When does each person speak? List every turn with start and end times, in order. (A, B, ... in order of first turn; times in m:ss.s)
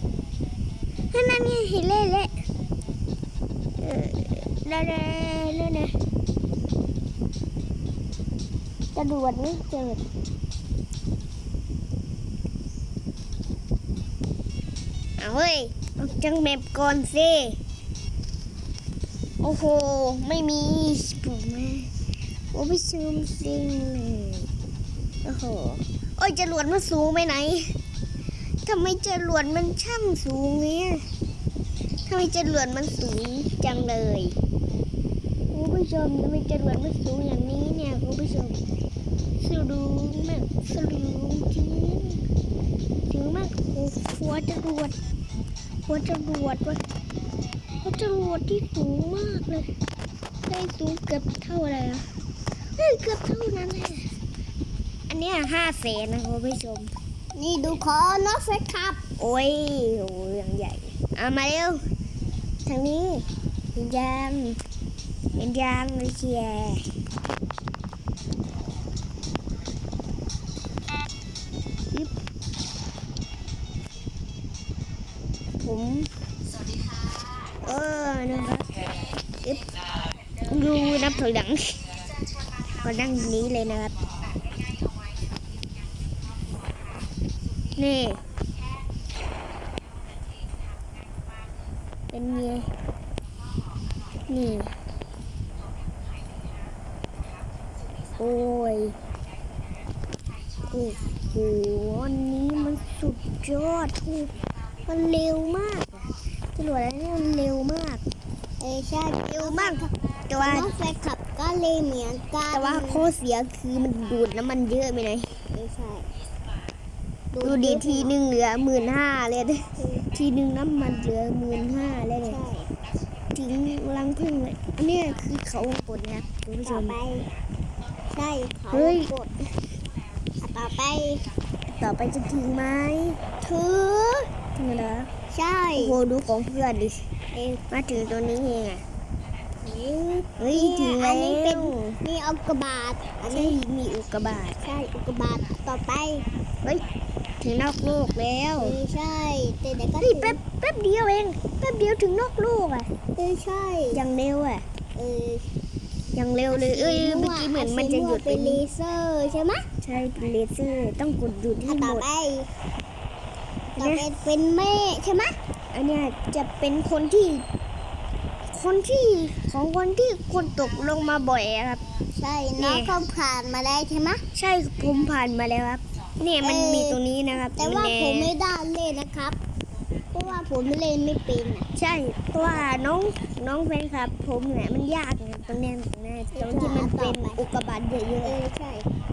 0:01.1-0:02.3 A
0:03.8-0:05.9 A
0:08.9-0:10.0 A
0:15.2-0:17.6 A
0:19.4-0:21.9 A
0:22.5-0:24.5 A
0:25.2-0:27.7 A
0:28.6-0:31.0 A
0:32.1-0:34.4 A
0:35.5-0:38.6 A
0:39.4-0:42.2 A
0:43.1-0:44.9 A
0:45.9-0:46.8 A
0:47.8-0:49.6 A
0:50.5-0:52.0 A
0:52.8-0:54.0 A
0:55.1-0:56.9 A
0:57.3-0:59.0 B
0:59.2-1:01.8 A
1:02.6-1:03.2 A
1:03.7-1:04.6 A
1:05.4-1:06.8 A
1:15.6-1:16.1 A
1:17.6-1:18.7 A
1:19.4-1:19.7 A
1:20.4-1:21.8 A
1:22.8-1:23.9 A
1:27.8-1:28.2 A
1:32.1-1:32.7 A
1:34.3-1:34.7 A
1:38.2-1:39.0 A
1:40.7-1:44.3 A
1:44.9-1:48.0 A
1:48.6-1:53.0 B
1:49.3-1:50.7 A
1:52.5-1:55.3 A
1:55.5-1:56.1 B
1:57.3-1:58.2 B
1:57.4-2:02.4 A
1:59.8-2:00.0 B
2:02.2-2:02.7 B
2:03.3-2:07.0 A
2:06.6-2:07.3 B
2:08.1-2:09.3 B
2:08.7-2:09.1 A
2:10.4-2:11.2 B
2:11.7-2:13.2 A
2:13.4-2:14.2 B
2:14.6-2:15.1 A
2:15.3-2:16.0 B
2:15.8-2:17.0 A
2:17.3-2:17.6 B
2:17.7-2:18.8 A
2:19.6-2:23.6 B
2:20.4-2:22.0 A
2:23.3-2:24.6 A
2:24.6-2:26.2 B
2:27.4-2:28.7 A
2:28.6-2:30.4 B
2:30.0-2:32.9 A
2:33.2-2:34.0 B
2:33.9-2:34.6 A
2:34.9-2:35.4 B
2:36.1-2:38.6 A
2:36.5-2:39.6 B
2:39.8-2:42.0 A
2:41.6-2:42.5 B
2:43.8-2:44.0 A
2:43.8-2:45.3 B
2:45.7-2:47.4 A
2:48.5-2:51.8 A
2:52.2-2:54.2 B
2:52.6-2:53.0 A
2:54.3-2:58.3 A
2:56.4-2:59.4 B
3:00.1-3:01.7 B
3:01.7-3:08.4 A
3:06.3-3:07.4 B
3:08.2-3:08.8 B